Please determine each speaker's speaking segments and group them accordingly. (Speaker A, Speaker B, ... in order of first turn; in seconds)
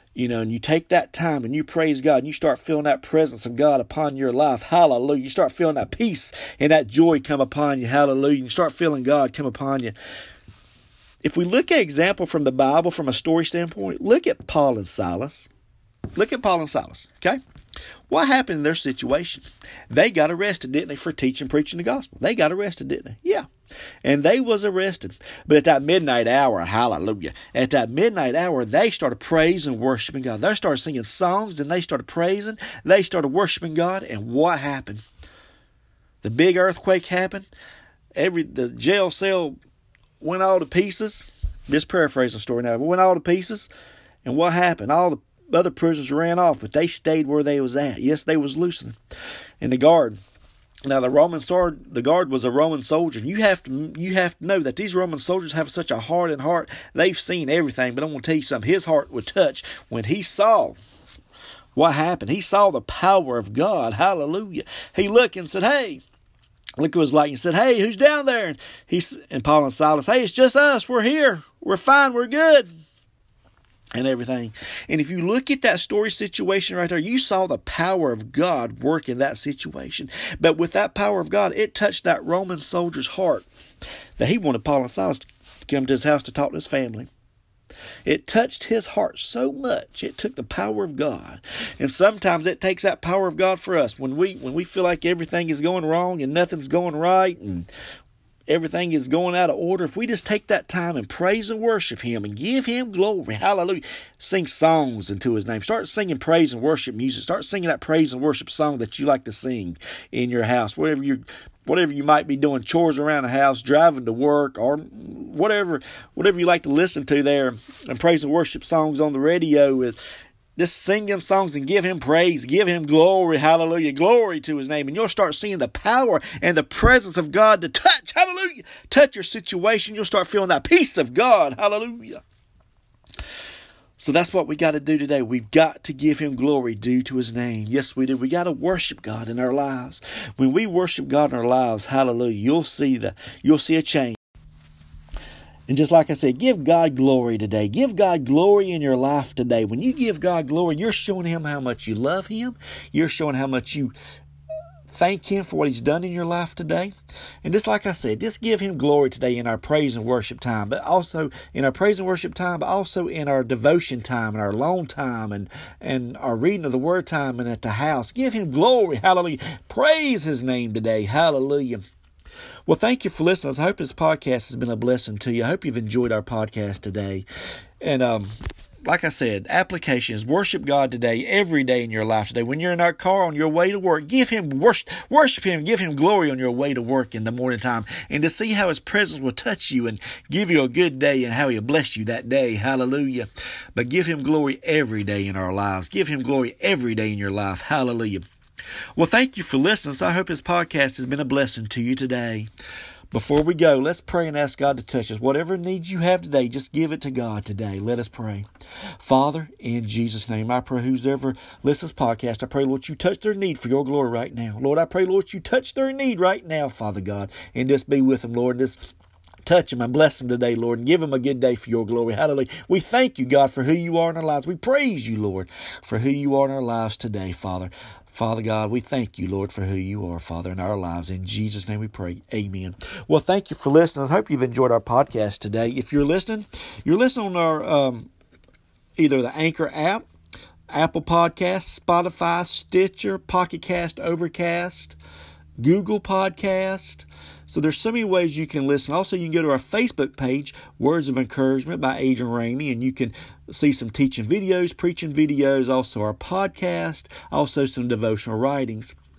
Speaker A: 0.1-9.9, 11.2-15.5, 16.1-17.4, 18.1-23.5, 24.0-35.0, 36.2-37.5, 38.2-39.6, 40.2-43.7, 44.2-49.0, 49.6-50.2, 50.9-60.8, 61.8-66.0, 66.8-72.7, 73.9-83.5, 84.2-87.1, 88.0-97.7, 98.5-120.0, 120.6-132.2, 134.0-144.2, 145.7-153.9, 154.9-156.9, 157.4-171.8, 172.7-177.3, 177.8-178.3, 178.8-198.2, 199.0-202.5, 203.1-208.5, 209.0-218.8, 219.4-238.1, 239.0-240.1, 240.7-245.0, 245.6-259.0